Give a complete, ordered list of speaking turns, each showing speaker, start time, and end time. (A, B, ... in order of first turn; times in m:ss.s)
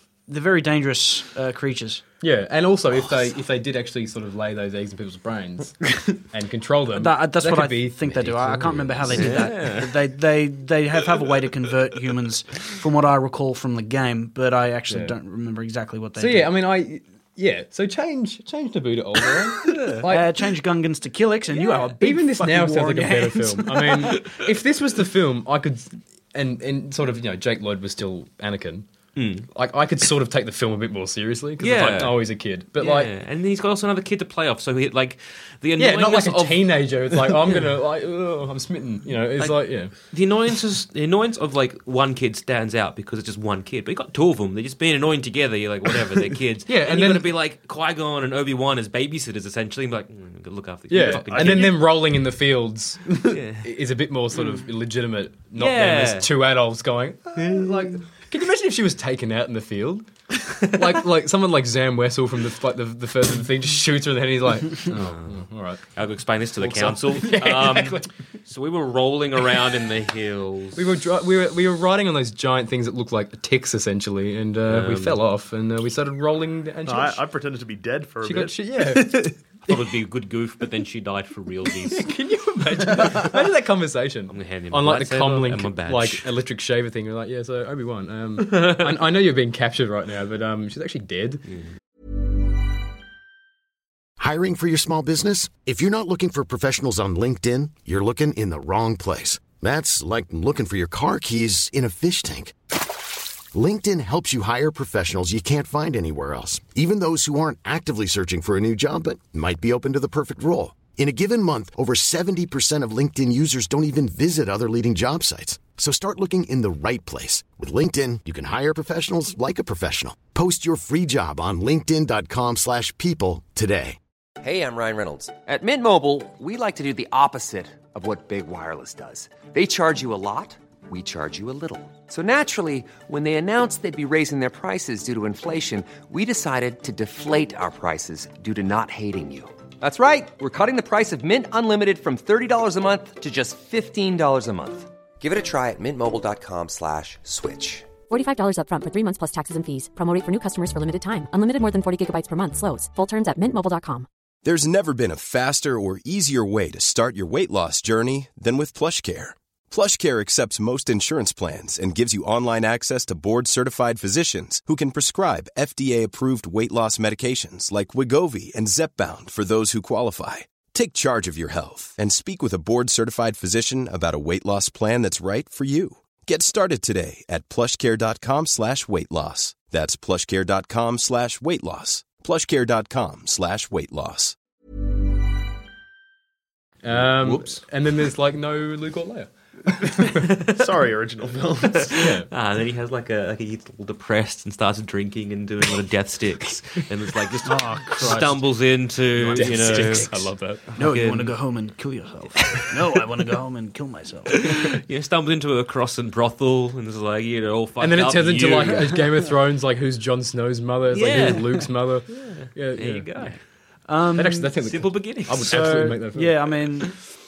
0:00.3-0:02.0 A
0:02.2-0:09.7 B
0:06.9-0:16.5 A
0:09.1-0:09.9 C
0:14.9-0:15.2 B
0:16.2-0:20.4 B
0:19.9-0:24.2 A
0:22.0-0:28.9 B
0:24.1-0:24.4 C
0:29.2-0:29.5 C
0:29.5-0:33.1 B
0:31.6-0:32.2 C
0:32.8-0:37.6 C
0:35.8-0:39.9 B
0:39.4-0:51.8 C
0:46.7-0:47.3 B
0:50.9-1:00.1 B
0:50.9-0:51.8 D
0:53.2-0:53.7 C
0:54.4-0:54.6 C
0:55.6-0:56.3 C
1:00.6-1:05.8 B
1:04.9-1:10.8 C
1:06.6-1:08.1 B
1:10.8-1:17.2 B
1:14.7-1:15.2 C
1:16.9-1:18.6 D
1:18.2-1:19.8 B
1:19.7-1:22.1 C
1:21.8-1:31.4 B
1:22.9-1:23.3 C
1:24.3-1:26.3 C
1:34.2-1:42.6 E
1:43.5-2:04.0 E
2:04.4-2:27.9 F
2:28.1-2:34.1 G
2:34.4-3:04.4 H
3:06.8-3:10.3 B
3:07.2-3:07.6 C
3:10.2-3:10.6 C
3:10.5-3:12.0 D
3:11.8-3:21.4 C
3:11.9-3:12.3 B
3:17.4-3:18.4 A
3:19.2-3:20.6 B
3:19.3-3:20.1 A
3:20.8-3:24.4 A
3:22.4-3:22.7 C
3:24.3-3:29.1 C
3:27.8-3:33.4 B
3:30.9-3:33.4 C
3:33.9-3:34.5 A
3:34.2-3:36.6 B
3:34.6-3:35.6 C
3:35.5-3:37.0 A